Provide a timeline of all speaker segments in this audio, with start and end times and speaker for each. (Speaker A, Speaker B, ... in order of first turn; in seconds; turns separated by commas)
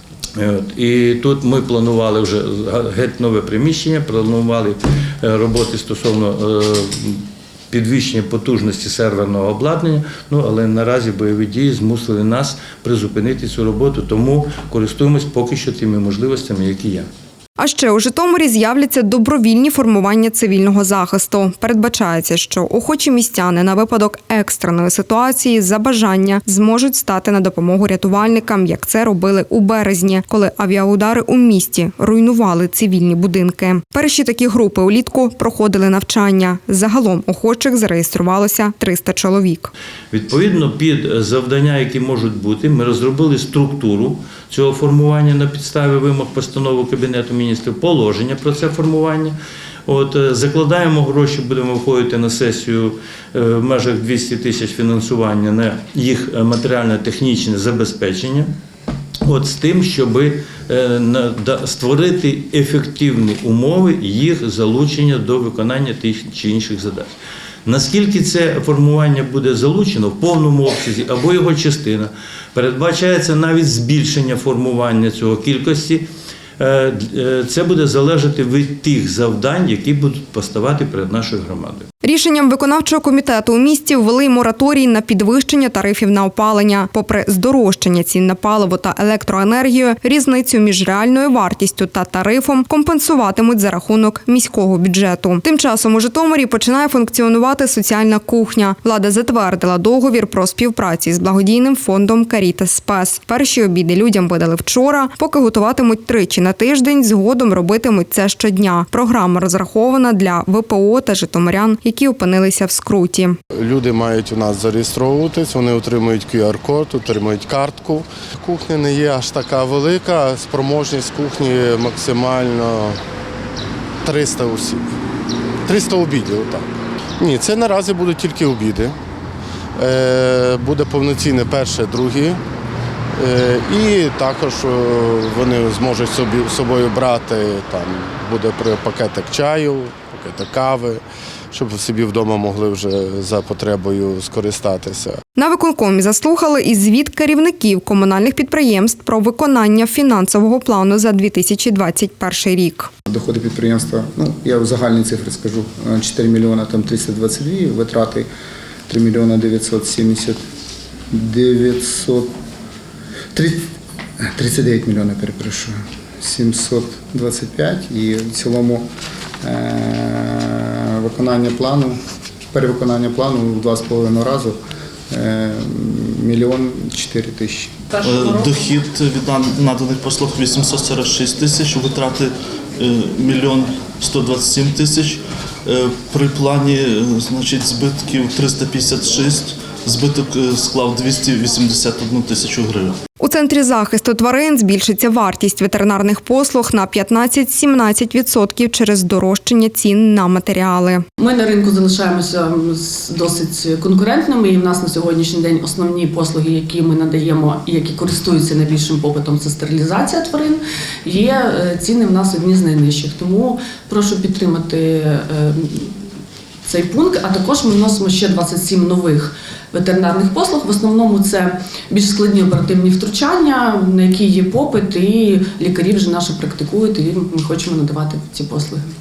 Speaker A: 0.4-17.1, Speaker B: 17.6-39.7, Speaker A: 40.1-49.4, Speaker A: 49.9-58.5, Speaker A: 59.2-67.1, Speaker A: 67.7-76.0, Speaker A: 76.6-81.9, Speaker B: 82.0-113.4, Speaker C: 113.5-123.0, Speaker C: 124.0-124.9, Speaker C: 125.7-129.0, Speaker C: 129.8-132.4, Speaker C: 133.2-145.2, Speaker B: 145.4-152.9, Speaker D: 153.1-158.3, Speaker D: 158.9-160.4, Speaker D: 161.1-162.3, Speaker D: 163.3-163.7, Speaker D: 164.3-168.9, Speaker D: 169.4-172.0, Speaker D: 172.5-174.6, Speaker D: 175.1-177.7, Speaker E: 178.0-193.0, Speaker B: 193.2-201.0, Speaker F: 201.2-216.0, Speaker F: 216.7-228.9